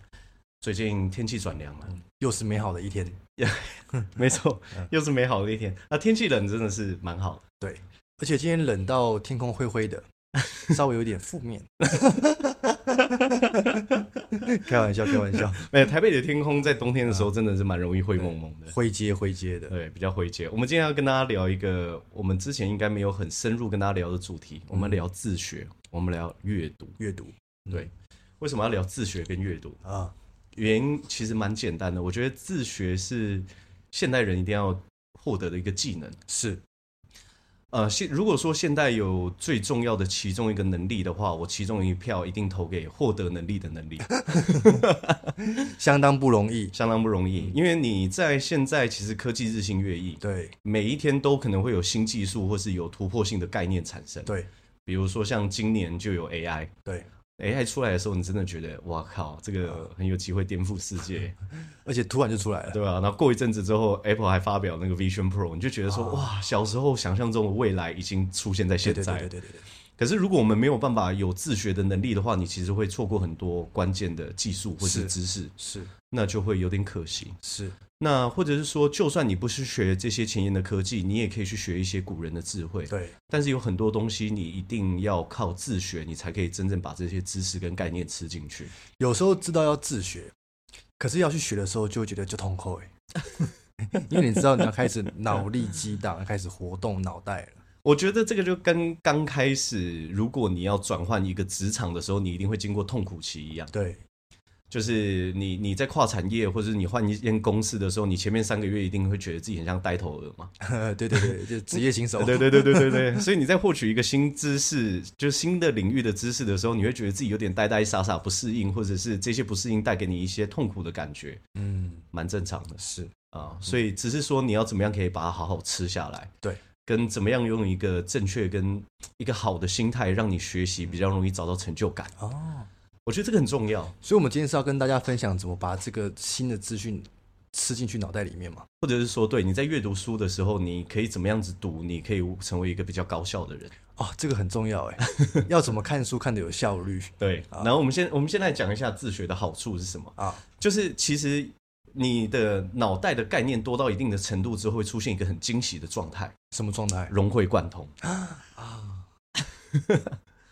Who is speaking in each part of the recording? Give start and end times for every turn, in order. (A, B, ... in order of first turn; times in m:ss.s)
0:00.6-0:02.0 A
0:02.1-0:03.2 B
0:03.4-0:07.4 A
0:07.6-0:15.7 B
0:12.8-0:14.6 A
0:15.3-0:18.7 A
0:18.7-0:19.7 B
0:19.7-0:27.0 A
0:24.7-0:25.0 B
0:27.0-0:27.9 B
0:27.7-0:29.8 A
0:29.8-0:30.1 B
0:30.5-0:36.2 A
0:36.3-0:36.6 B
0:37.7-0:45.4 A
0:44.1-0:44.8 B
0:45.4-0:46.7 B
0:46.7-0:54.3 A
0:50.2-0:50.5 B
0:54.8-0:56.7 A
0:57.4-1:01.4 A
1:01.8-1:02.8 B
1:02.7-1:09.3 A
1:05.9-1:06.3 B
1:08.8-1:09.6 B
1:10.0-1:15.5 A
1:14.8-1:15.9 B
1:16.1-1:17.4 A
1:17.4-1:17.8 B
1:18.0-1:28.7 A
1:22.9-1:23.2 B
1:28.9-1:30.3 B
1:31.0-1:32.9 B
1:33.8-1:37.6 B
1:37.8-1:43.7 A
1:43.7-1:44.0 B
1:44.7-1:50.5 A
1:50.6-1:53.2 B
1:52.2-2:01.4 A
2:01.5-2:02.0 B
2:02.1-2:02.8 A
2:02.8-2:03.1 B
2:03.3-2:06.3 A
2:06.8-2:12.1 A
2:12.2-2:12.7 B
2:13.0-2:14.0 A
2:14.0-2:18.7 B
2:18.8-2:23.8 A
2:24.0-2:27.7 B
2:27.2-2:36.3 A
2:30.2-2:30.4 B
2:36.5-2:37.1 B
2:37.1-2:37.9 A
2:38.0-2:39.0 B
2:39.7-2:40.2 A